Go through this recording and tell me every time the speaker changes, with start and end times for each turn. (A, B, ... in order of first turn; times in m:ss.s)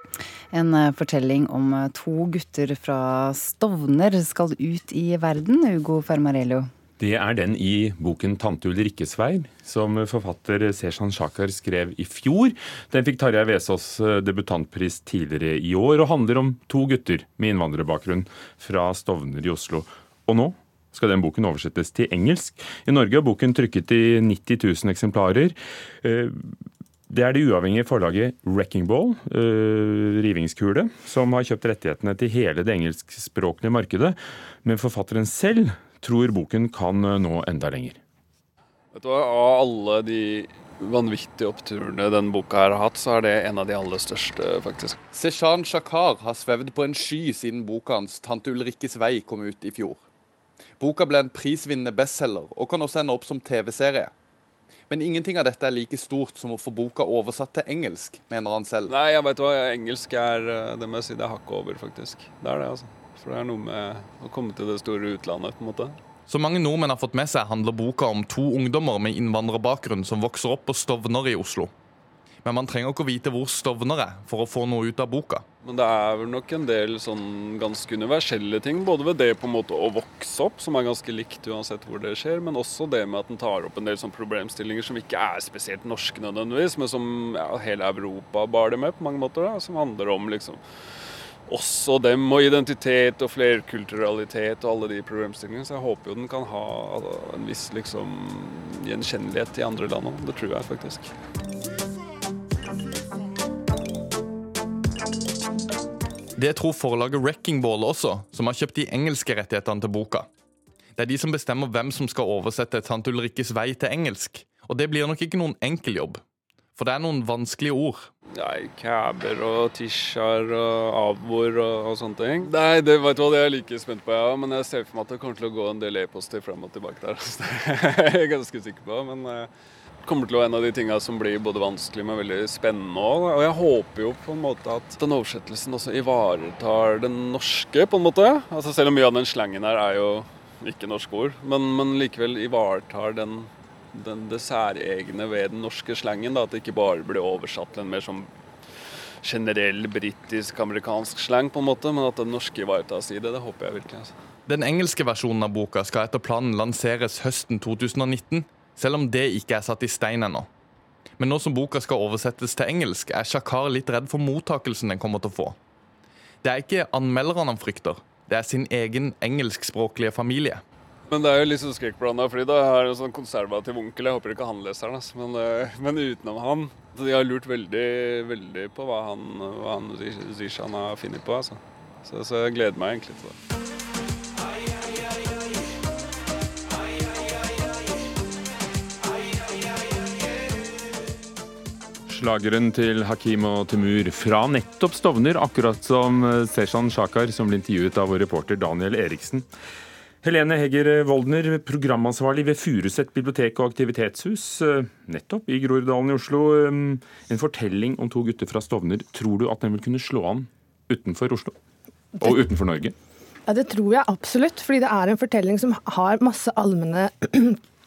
0:00.5-0:06.7 A
0:07.0-0:26.3 B
0:27.1-0:38.0 B
0:38.9-0:45.0 C
0:45.1-0:50.1 D
0:50.8-0:54.1 D
0:54.9-0:58.9 D
0:58.9-1:06.0 C
1:06.3-1:11.7 D
1:12.4-1:15.4 D
1:15.6-1:30.6 C
1:31.5-1:41.1 C
1:46.4-1:50.3 D
1:51.0-1:56.2 D
1:56.8-1:58.1 D
1:58.4-2:09.5 C
2:10.0-2:28.3 C
2:29.2-2:34.1 C
2:34.5-2:40.5 D
2:41.2-2:45.6 D
2:46.4-2:50.6 D
2:51.1-3:03.3 C
3:12.1-3:19.4 B
3:20.2-3:31.5 B
3:32.2-3:32.9 B
3:33.4-3:37.6 E